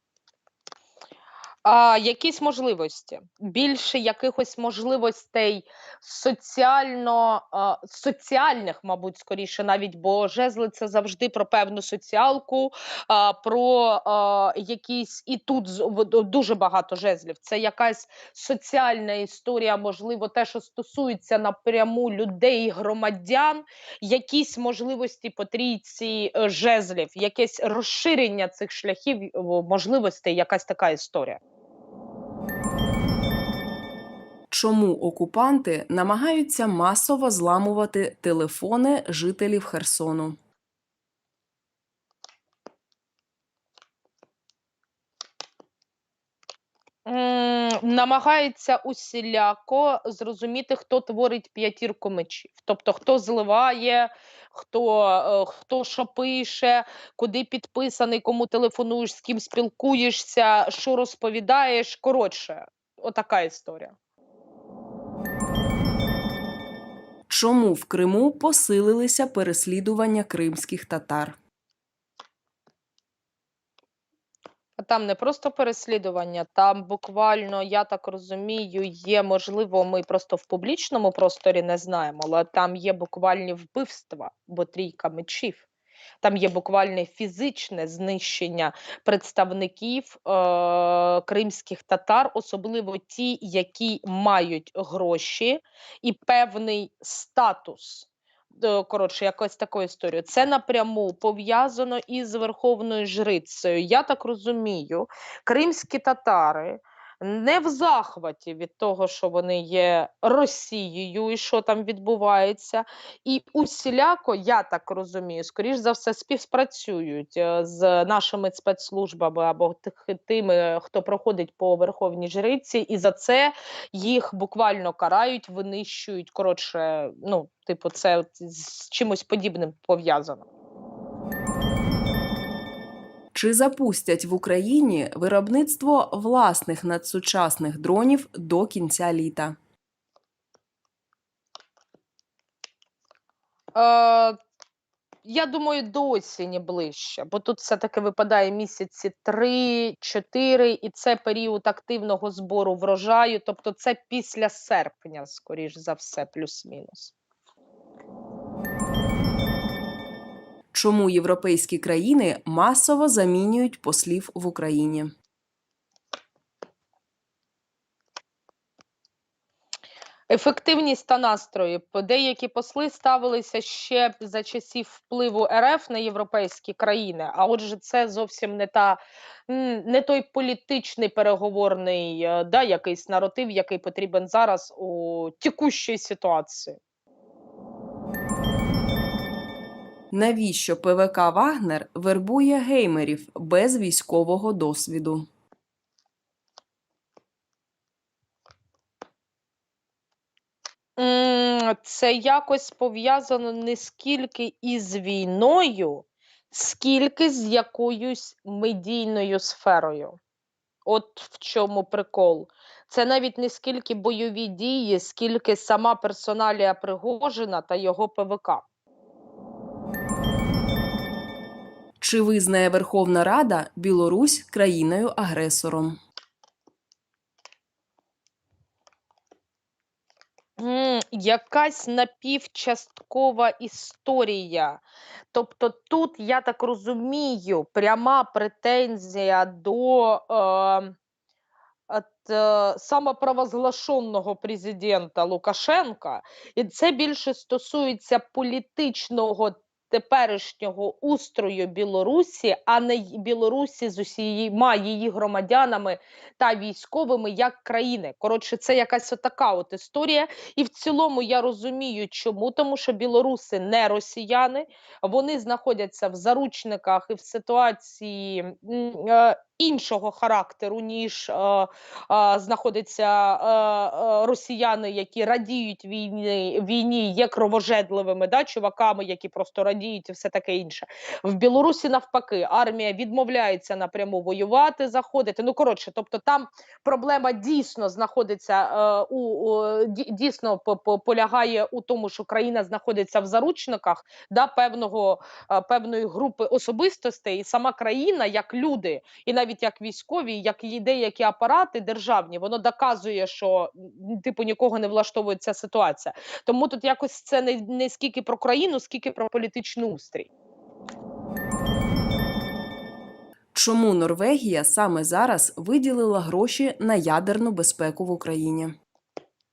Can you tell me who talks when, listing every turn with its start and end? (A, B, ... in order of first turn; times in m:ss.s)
0:01.6-0:31.4 A
0:34.5-0:40.4 B
0:47.0-1:04.0 A
1:07.3-1:11.4 B
1:14.8-1:25.6 A
1:26.2-2:10.5 A
2:13.3-2:19.6 B
2:23.7-2:24.4 A
2:25.2-2:37.1 A
2:40.7-2:45.1 B
2:50.3-3:06.8 A
3:10.1-3:15.3 B
3:21.0-3:30.2 A
3:30.8-3:38.6 A
3:42.0-3:46.0 B
3:50.6-3:54.8 A
3:55.3-4:00.9 A
4:01.9-5:10.3 A
5:13.5-5:18.7 B